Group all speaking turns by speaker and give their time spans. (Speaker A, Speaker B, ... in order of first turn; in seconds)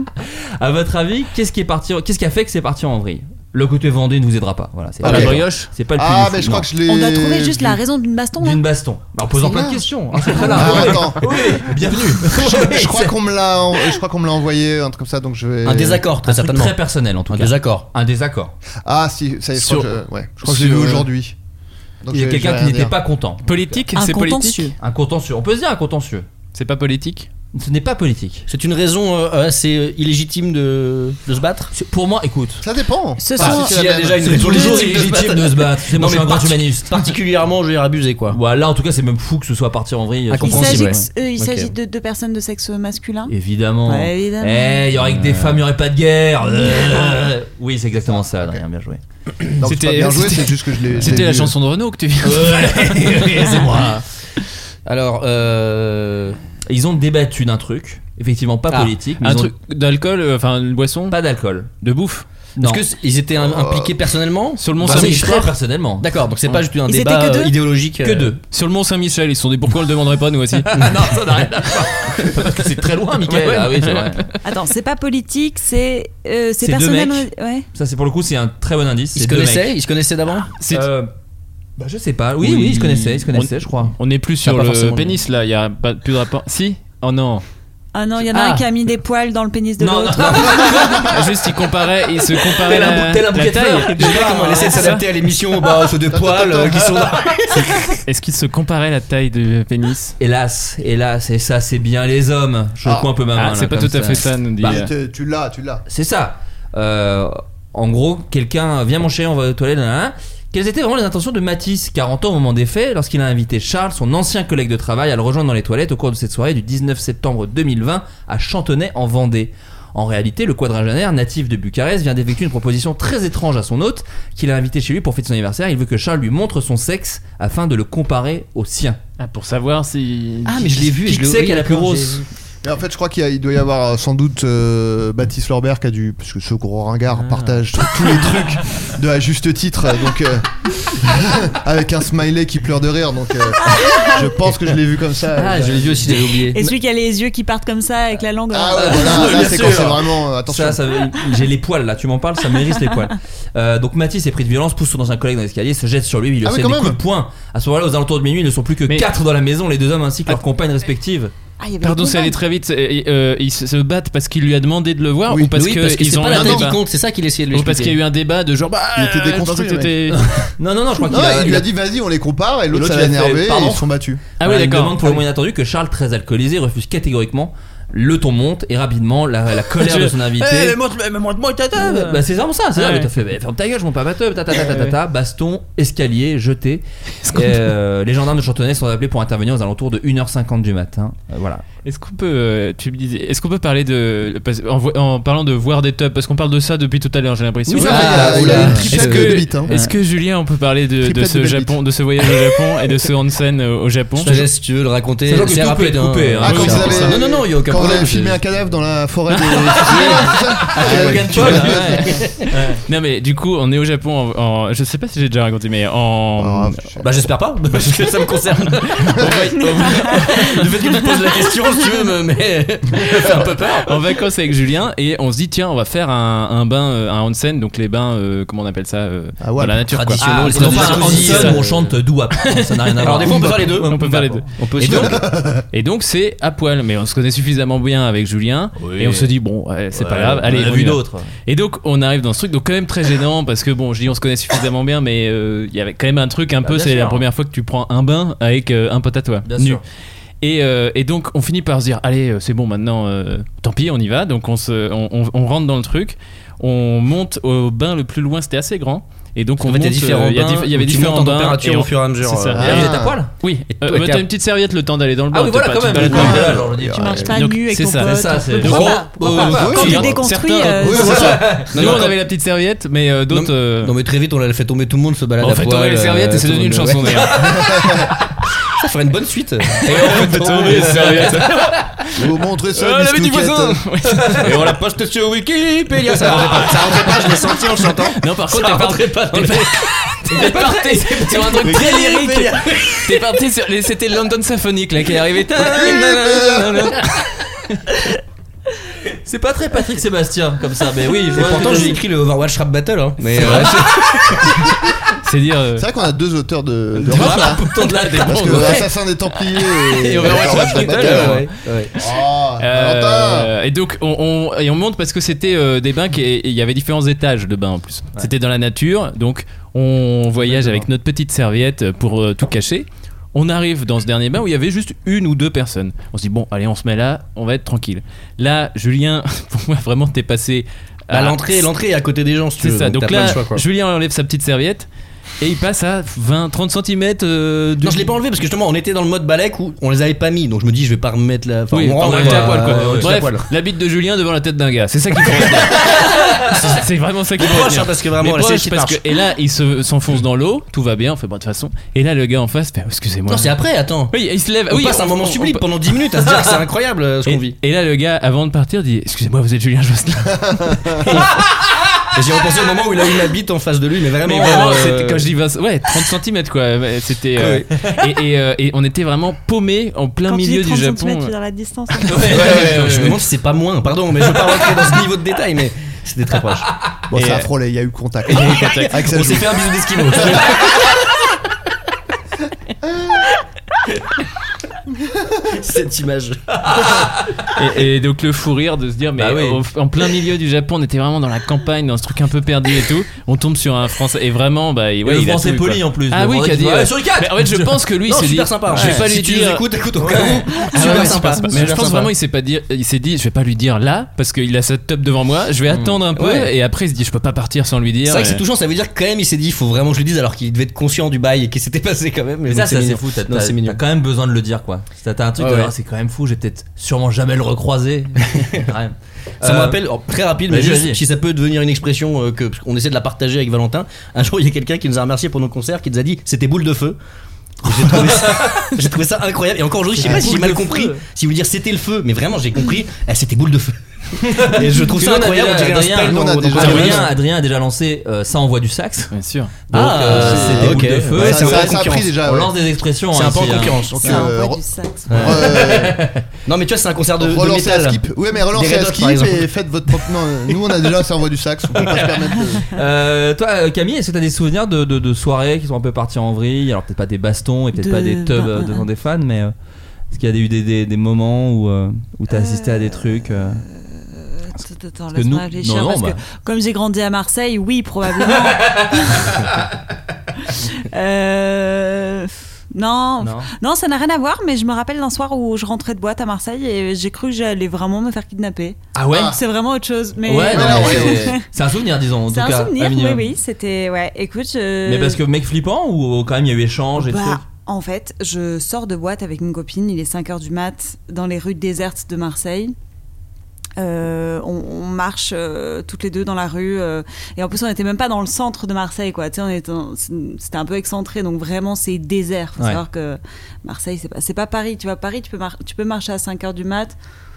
Speaker A: 0.2-6.7, 8.4-13.2, 16.2-18.6, 20.4-21.1, 22.1-23.8, 24.8-26.3, 27.5-28.5, 31.7-32.6, 34.2-37.1, 38.3-41.0, 43.3-49.0, 52.2-54.1, 56.7-59.5, 61.1-61.7, 62.6-62.9, 64.8-66.7, 68.0-68.4, 70.7-74.2, 76.6-79.7, 80.7-81.1, 81.8-84.0, 89.8-91.2, 92.5-94.9, 96.7-97.3, 100.2-104.8, 105.9-129.0, 130.9-132.2, 148.8-161.3, 170.1-171.7, 172.7-173.9, 174.4-180.8, 181.7-191.6, 198.0-199.2, 199.7-199.9, 205.3-207.2, 210.7-212.7, 229.9-234.4, 238.8-239.3, 239.9-241.3, 246.6-247.2, 249.5-249.8, 262.6-263.3, 265.3-267.3, 268.0-270.1, 270.9-272.1, 277.1-278.1, 280.8-281.2, 286.3-286.9, 290.3-291.8, 299.1-302.0, 303.4-304.4, 307.1-308.8, 342.0-343.2, 372.1-373.1, 386.6-387.5, 389.2-389.6, 395.0-397.9, 398.7-399.1, 400.0-401.0, 405.7-406.0, 412.5-419.8, 420.5-421.0, 427.7-428.7, 430.0-431.0, 434.2-439.1, 439.7-444.2, 445.2-446.1, 452.7-459.5, 460.1-463.6, 465.1-466.2, 468.5-469.5, 473.2-473.5, 478.9-479.4, 480.2-483.3, 484.9-487.4
Speaker B: 5.0-5.7, 23.4-24.7, 26.5-27.3, 49.6-53.6, 59.2-61.2, 61.8-62.3, 64.6-65.5, 68.5-71.1, 73.2-74.3, 80.6-80.9, 82.5-87.5, 88.3-88.7, 90.7-95.1, 97.5-100.2, 103.3-104.9, 129.2-130.9, 161.8-166.8, 167.5-170.5, 174.4-175.2, 179.8-182.2, 182.7-183.1, 184.5-184.9, 187.2-187.7, 191.8-204.4, 206.4-207.0, 209.3-210.9, 212.8-216.9, 217.7-221.1, 223.8-231.6, 232.4-249.8, 250.4-266.6, 267.3-273.9, 275.4-277.4, 279.8-282.2, 282.8-284.8, 286.2-297.8, 303.3-303.9, 305.2-305.9, 307.1-308.9, 309.5-311.5, 312.6-331.7, 332.6-334.9, 335.4-338.1, 341.7-353.6, 354.1-355.6, 357.2-361.3, 364.2-371.3, 372.1-373.1, 377.1-377.5, 378.3-379.4, 387.6-399.7, 400.2-408.4, 439.1-439.6
Speaker C: 5.0-7.8, 9.5-9.8, 10.4-11.4, 12.2-16.1, 18.9-21.4, 22.0-22.9, 32.6-34.9, 49.6-51.5, 63.5-64.0, 96.1-97.1, 102.8-103.1, 104.6-105.8, 132.6-146.2, 148.5-150.9, 156.4-157.0, 166.3-166.7, 168.9-170.1, 171.1-174.2, 197.8-199.7, 201.0-201.8, 206.4-212.2, 216.4-217.1, 229.4-231.1, 235.3-235.6, 262.6-263.2, 266.1-267.3, 269.4-270.1, 270.8-271.7, 277.5-278.0, 282.2-283.9, 296.0-296.7, 305.8-307.6, 308.2-313.5, 377.1-379.5, 436.0-437.1, 439.8-442.5, 443.9-446.0, 447.2-452.7, 479.1-479.4, 480.5-481.3
Speaker D: 6.9-8.6, 9.4-9.7, 23.9-24.8, 33.2-33.8, 40.5-43.3, 43.9-44.8, 66.9-67.5, 74.4-77.7, 87.9-90.9, 146.5-149.4, 161.6-162.4, 267.0-271.4, 370.3-372.2, 444.0-445.3, 457.8-458.9, 462.3-469.4, 470.4-481.4, 482.3-485.2, 487.0-492.8, 493.8-507.0
Speaker E: 15.7-16.8, 17.3-17.9, 28.5-31.7, 33.4-38.4, 40.3-41.7, 54.9-56.4, 62.6-68.3, 79.1-80.5, 82.5-83.0, 84.5-85.2, 93.9-97.4, 130.4-132.2, 145.4-146.7, 149.2-149.9, 165.5-168.0, 197.7-199.3, 204.2-208.4, 209.9-210.2, 210.7-212.5, 217.0-224.0, 230.2-231.9, 233.0-235.3, 259.6-262.8, 263.7-264.3, 266.1-266.4, 271.6-272.2, 273.3-277.3, 278.8-281.7, 284.4-289.8, 291.6-293.1, 295.6-296.9, 301.3-304.4, 310.1-311.9, 331.1-333.6, 337.8-343.5, 346.5-346.8, 347.4-349.1, 353.3-354.1, 354.7-357.6, 362.1-365.3, 367.4-367.7, 372.3-376.7, 378.4-380.7, 385.5-386.4, 398.1-402.1, 406.2-406.5, 408.1-413.8, 415.4-415.7, 418.3-418.7, 419.4-427.0, 427.6-433.8, 434.3-437.1, 439.7-442.2, 443.1-444.1, 445.1-445.6, 446.4-449.5